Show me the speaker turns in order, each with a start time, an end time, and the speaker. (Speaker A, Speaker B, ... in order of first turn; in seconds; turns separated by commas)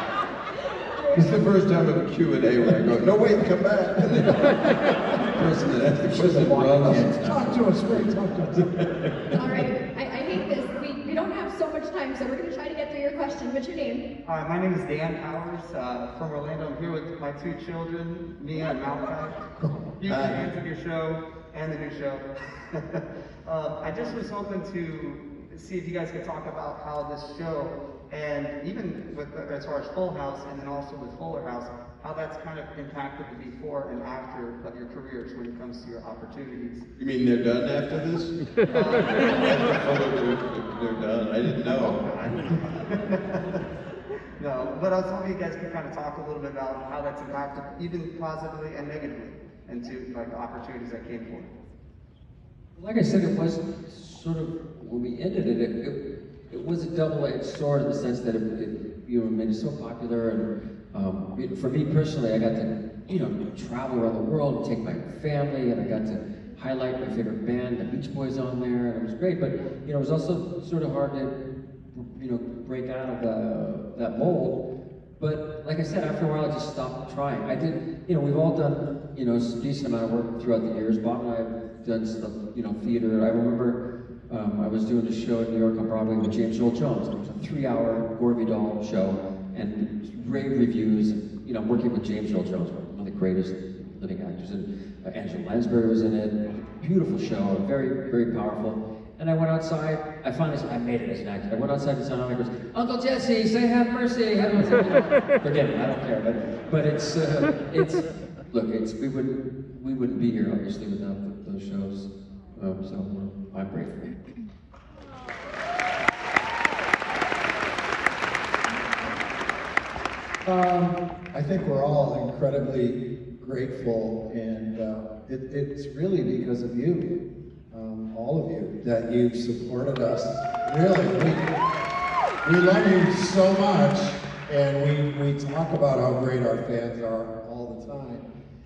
Speaker A: 1.0-1.3, Speaker B: 1.1-4.5, Speaker B: 5.3-7.2, Speaker C: 6.0-8.1, Speaker D: 7.2-8.7, Speaker B: 8.6-9.2, Speaker A: 9.3-14.1, Speaker E: 14.2-19.5, Speaker E: 20.0-36.9, Speaker B: 20.1-20.4, Speaker B: 37.0-38.4, Speaker E: 38.7-39.1, Speaker B: 38.9-42.0, Speaker E: 41.7-43.6, Speaker E: 44.4-51.5, Speaker C: 52.8-71.3, Speaker C: 71.9-74.6, Speaker C: 75.2-83.8, Speaker C: 84.3-114.2, Speaker D: 120.5-127.1, Speaker D: 127.7-131.4, Speaker D: 132.4-138.2